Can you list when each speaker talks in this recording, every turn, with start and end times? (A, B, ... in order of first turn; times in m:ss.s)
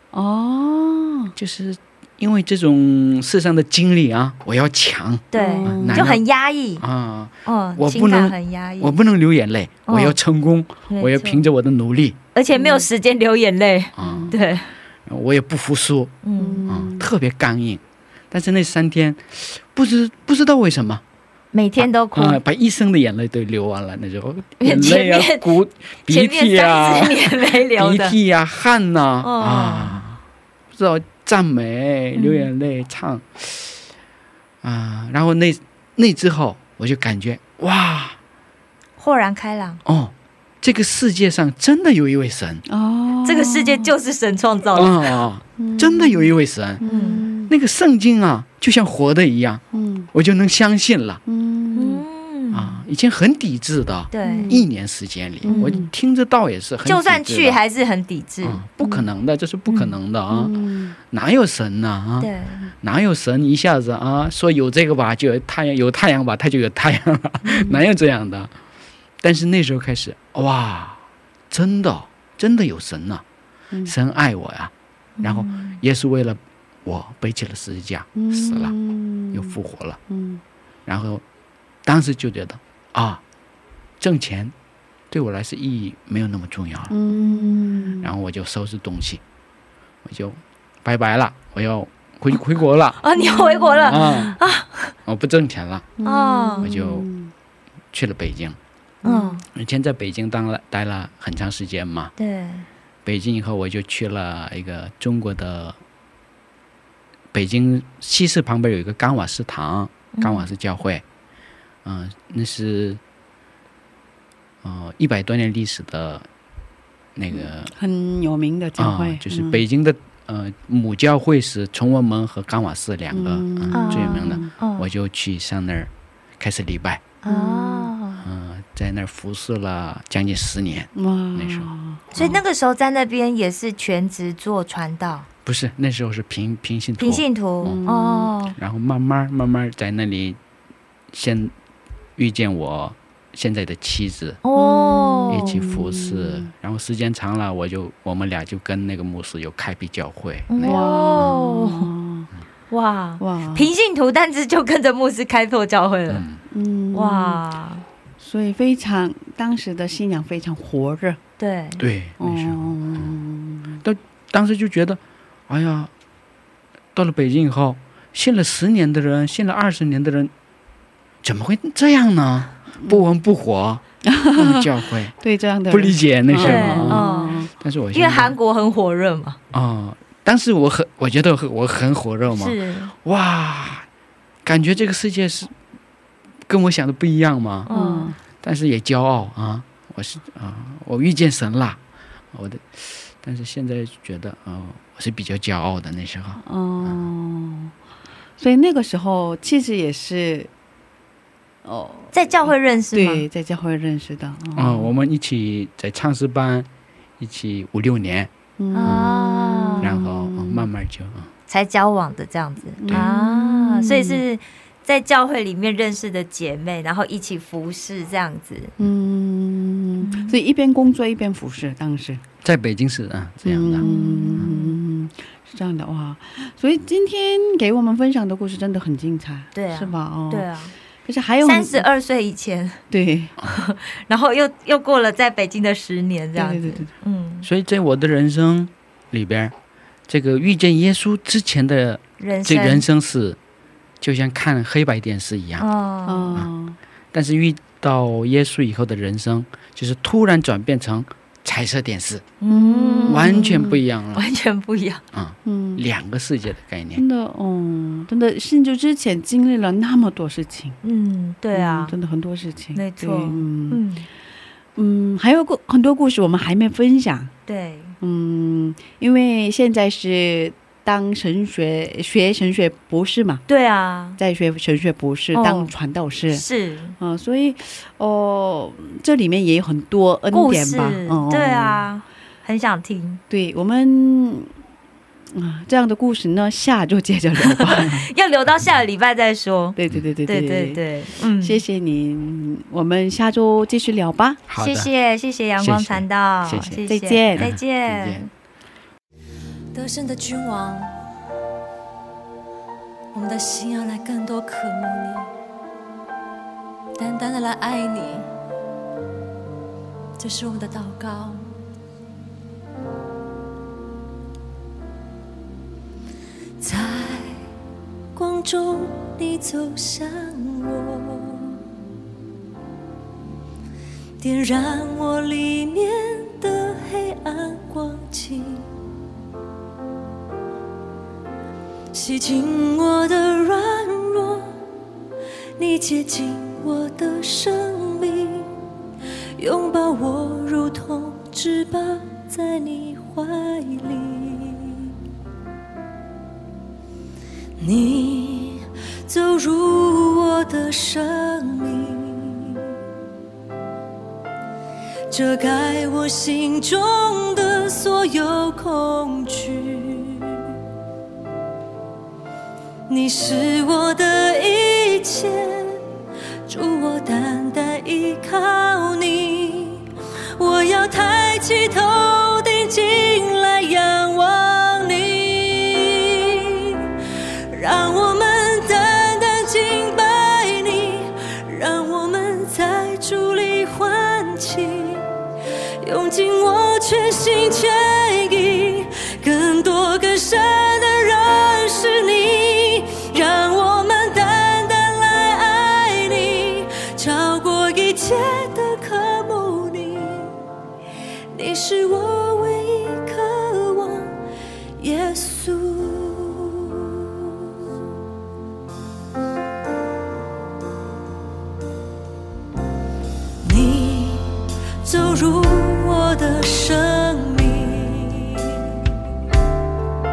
0:00.1-0:01.4 A
0:01.4-0:06.2 B
0:05.3-0:06.8 C
0:05.4-0:06.1 A
0:06.8-0:12.2 B
0:07.5-0:09.0 C
0:09.9-0:10.2 C
0:10.9-0:11.4 C
0:12.4-0:14.7 C
0:12.5-0:12.9 A
0:14.0-0:14.4 B
0:14.0-0:14.4 A
0:15.1-0:16.2 B
0:16.2-0:16.7 C
0:16.4-0:17.1 A
0:16.7-0:21.0 B
0:21.5-0:22.4 C
0:21.8-0:30.2 B
0:24.6-0:25.5 C
0:26.1-0:28.2 C
0:29.2-0:30.0 C
0:30.7-0:33.8 B
0:32.2-0:32.5 C
0:34.6-0:38.2 B
0:39.0-0:39.8 C
0:39.8-0:42.6 B
0:42.7-0:43.9 A
0:43.2-0:45.2 C
0:44.7-0:46.8 B
0:45.6-0:47.5 A
0:46.8-0:47.3 C
0:47.5-0:49.6 B
0:49.7-0:50.1 A
0:50.1-0:51.2 B
0:51.3-0:52.0 A
0:51.8-0:52.8 C
0:52.5-0:57.6 B
0:54.1-0:54.6 C
0:54.2-0:54.7 A
0:55.4-0:55.9 A
0:55.5-0:55.8 C
0:56.8-0:58.6 C
0:58.4-1:00.5 B
0:58.8-0:59.1 A
1:00.3-1:01.0 A
1:01.1-1:02.3 B
1:02.2-1:02.6 C
1:02.8-1:08.5 B
1:07.4-1:07.8 A
1:09.2-1:13.2 B
1:13.9-1:18.7 B
1:15.2-1:15.8 C
1:18.2-1:19.6 A
1:19.3-1:20.0 B
1:20.1-1:20.4 A
1:20.9-1:21.2 B
1:21.8-1:23.2 B
1:24.0-1:24.5 B
1:25.1-1:26.9 B
1:26.9-1:28.1 A
1:27.1-1:27.7 C
1:28.0-1:29.2 B
1:30.0-1:33.0 B
1:33.0-1:34.9 C
1:33.2-1:34.3 A
1:33.8-1:34.4 B
1:35.1-1:35.9 B
1:36.0-1:37.3 A
1:36.0-1:36.7 C
1:36.6-1:37.1 B
1:37.9-1:38.6 B
1:39.0-1:39.4 A
1:39.0-1:39.4 C
1:39.5-1:42.1 B
1:42.2-1:42.7 C
1:43.0-1:45.8 B
1:47.3-1:51.0 B
1:50.1-1:50.5 C
1:51.8-1:53.0 B
1:54.6-1:56.3 B
1:57.2-1:57.7 B
1:57.3-1:59.6 A
1:58.8-2:07.0 B
2:03.1-2:04.5 A
2:03.7-2:04.9 C
2:07.2-2:08.2 C
2:07.3-2:07.9 A
2:08.2-2:12.4 B
2:11.0-2:12.4 A
2:12.1-2:15.3 C
2:15.5-2:17.8 B
2:17.0-2:18.6 C
2:17.6-2:18.4 A
2:18.6-2:20.4 B
2:21.1-2:21.5 B
2:22.2-2:24.4 B
2:24.4-2:25.6 C
2:24.6-2:26.5 A
2:25.3-2:31.4 B
2:30.5-2:31.9 C
2:30.6-2:32.3 A
2:32.7-2:36.3 C
2:33.2-2:33.7 A
2:36.1-2:36.4 B
2:36.5-2:37.4 A
2:36.9-2:37.8 C
2:38.2-2:41.2 A
2:41.4-2:41.8 C
2:41.8-2:43.1 B
2:42.2-2:43.8 A
2:43.8-2:45.9 B
2:46.9-2:50.3 B
2:51.2-2:53.8 B
2:52.8-2:53.0 A
2:54.0-2:57.5 A
2:54.4-2:55.1 B
2:55.7-2:58.4 B
2:56.4-2:59.4 C
2:59.5-3:03.9 B
3:02.3-3:02.9 C
3:04.4-3:05.5 B
3:06.5-3:07.7 B
3:07.7-3:08.1 C
3:07.7-3:08.2 A
3:08.4-3:11.8 B
3:12.3-3:17.0 B
3:16.4-3:17.7 A
3:18.4-3:20.5 A
3:21.6-3:24.9 A
3:22.1-3:23.3 C
3:24.6-3:26.7 B
3:27.2-3:28.3 B
3:28.6-3:30.7 A
3:28.7-3:29.9 C
3:28.8-3:29.1 B
3:29.8-3:31.3 B
3:31.5-3:38.7 C
3:32.8-3:34.2 A
3:38.8-3:42.2 A
3:40.0-3:40.4 C
3:42.4-3:43.9 B
3:43.4-3:50.5 A
3:43.8-3:44.8 C
3:49.6-3:50.7 C
3:51.0-3:51.9 A
3:51.4-3:52.8 C
3:52.9-3:53.3 A
3:53.4-3:57.5 C
3:56.4-3:56.9 A
3:57.4-3:59.5 B
4:00.1-4:03.4 B
4:02.2-4:02.8 C
4:04.0-4:05.7 B
4:05.6-4:06.4 C
4:06.1-4:06.8 A
4:07.1-4:12.2 B
4:12.4-4:15.0 C
4:12.5-4:13.8 A
4:13.1-4:14.2 B
4:15.1-4:17.0 B
4:15.4-4:15.8 A
4:17.0-4:20.8 A
4:20.8-4:22.0 C
4:21.5-4:23.8 A
4:22.8-4:24.1 C
4:24.8-4:27.3 A
4:27.5-4:28.0 C
4:28.0-4:33.4 A
4:33.5-4:34.2 C
4:34.2-4:36.4 A
4:35.3-4:35.7 C
4:36.3-4:37.0 C
4:37.0-4:41.8 A
4:40.3-4:43.2 C
4:43.3-4:44.5 A
4:45.3-4:48.1 A
4:48.0-4:51.6 C
4:49.8-4:50.8 A
4:51.4-4:54.4 A
4:54.5-4:54.9 B
4:54.6-4:58.3 C
4:55.6-4:56.8 B
4:56.8-4:57.5 A
4:57.4-4:58.3 B
4:59.7-5:01.0 D
5:03.1-5:05.3 D
5:07.0-5:08.3 D
5:10.2-5:11.5 D
5:16.6-5:17.4 D
5:18.1-5:21.6 D
5:24.2-5:28.7 D
5:31.9-5:34.5 D
5:35.6-5:38.5 D
5:39.4-5:44.9 D
5:47.6-5:52.7 D
5:55.1-6:00.5 D
6:02.9-6:05.8 D
6:06.5-6:16.9 D
6:17.5-6:25.1 D
6:25.8-6:40.4 D
6:41.3-6:44.2 D
6:44.8-6:47.3 D
6:53.4-6:58.7 D